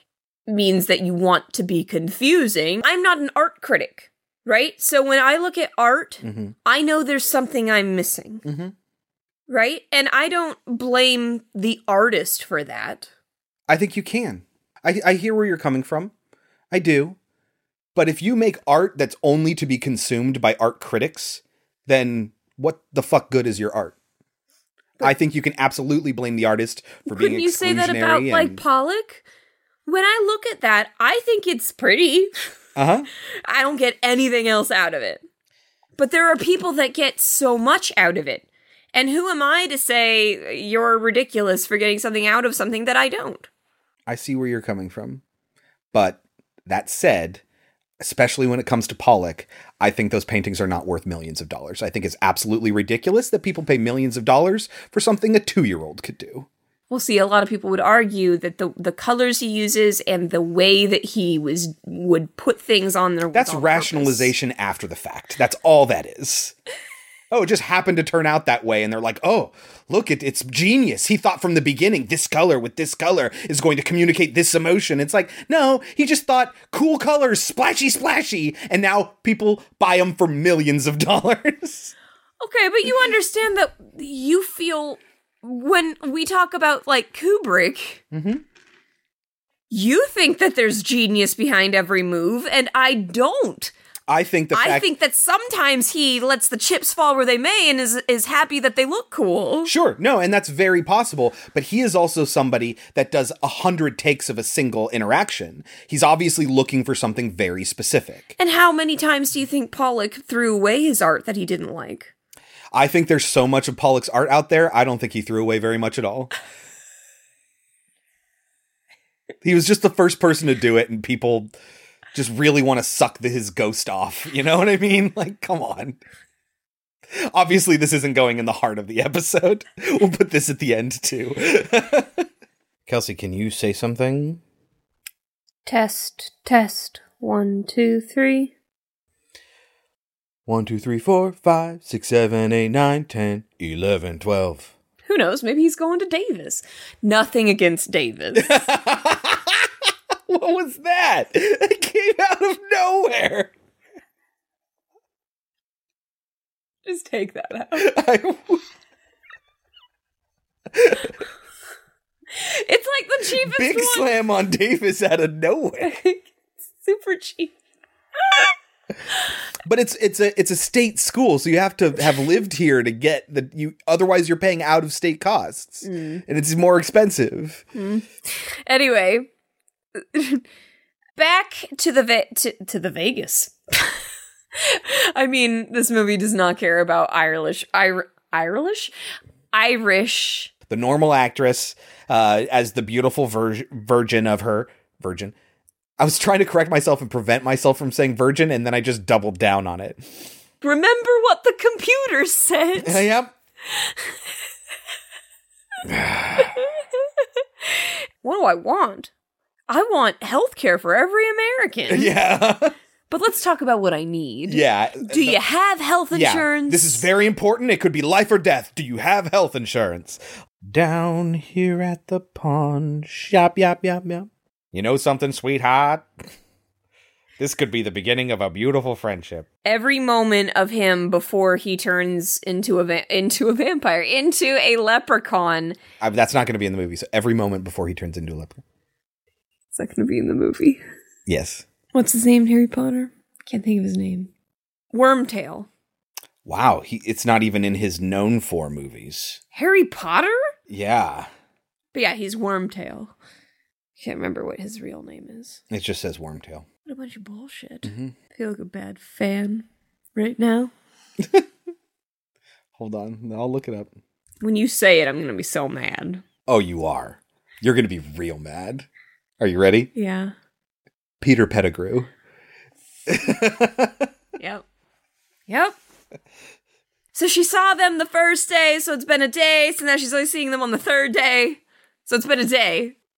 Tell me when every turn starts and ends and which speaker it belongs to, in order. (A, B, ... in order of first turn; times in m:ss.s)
0:00.5-0:08.4 A
0:06.2-0:06.5 B
0:08.4-0:08.7 B
0:09.5-0:13.1 A
0:13.7-0:16.1 B
0:16.7-0:17.2 B
0:17.9-0:23.9 B
0:25.0-0:28.6 B
0:27.1-0:29.2 A
0:29.8-0:32.3 A
0:32.8-0:33.1 B
0:33.4-0:35.2 A
0:36.0-0:43.5 A
0:44.1-0:45.2 B
0:45.9-0:47.4 B
0:48.0-0:56.5 B
0:56.9-1:04.3 A
1:03.3-1:06.5 B
1:07.3-1:21.9 B
1:22.4-1:28.0 A
1:28.1-1:28.4 B
1:29.7-1:33.7 A
1:34.1-1:34.9 B
1:34.5-1:39.7 A
1:39.6-1:48.3 B
1:48.4-1:52.1 A
1:52.7-1:56.3 B
1:59.4-2:01.5 B
2:02.1-2:06.0 B
2:07.1-2:12.2 B
2:12.9-2:14.4 B
2:15.6-2:18.5 A
2:20.4-2:24.7 B
2:25.0-2:28.6 A
2:28.3-2:29.7 B
2:30.3-2:33.5 B
2:36.8-2:37.9 A
2:37.8-2:38.6 B
2:40.7-2:41.1 B
2:42.4-2:44.1 A
2:43.4-2:45.9 B
2:45.8-2:47.5 A
2:49.6-2:57.6 B
2:55.8-2:56.2 A
2:57.7-2:59.3 A
3:00.1-3:00.4 A
3:01.2-3:03.9 A
3:04.6-3:08.9 A
3:09.5-3:10.5 A
3:10.7-3:15.3 B
3:16.0-3:20.1 B
3:20.6-3:23.0 A
3:22.8-3:23.3 B
3:25.8-3:26.5 B
3:27.7-3:29.1 A
3:29.7-3:32.1 A
3:31.9-3:32.7 B
3:33.1-3:37.1 A
3:34.5-3:35.4 B
3:36.1-3:46.1 B
3:47.4-3:49.5 B
3:49.6-3:55.8 A
3:56.0-3:58.6 B
3:59.7-4:00.8 A
4:01.3-4:01.6 B
4:01.9-4:04.3 A
4:04.9-4:05.7 A
4:06.4-4:09.4 B
4:09.5-4:10.5 A
4:10.7-4:11.3 B
4:11.9-4:13.1 A
4:14.0-4:15.6 A
4:15.7-4:16.6 B
4:16.8-4:20.7 A
4:17.8-4:18.1 B
4:21.2-4:21.4 B
4:22.8-4:23.9 B
4:24.4-4:26.2 A
4:26.5-4:28.8 B
4:29.4-4:29.9 B
4:29.9-4:30.3 A
4:31.2-4:32.1 B
4:33.1-4:34.1 B
4:34.4-4:34.6 A
4:35.5-4:35.7 A
4:37.1-4:42.9 A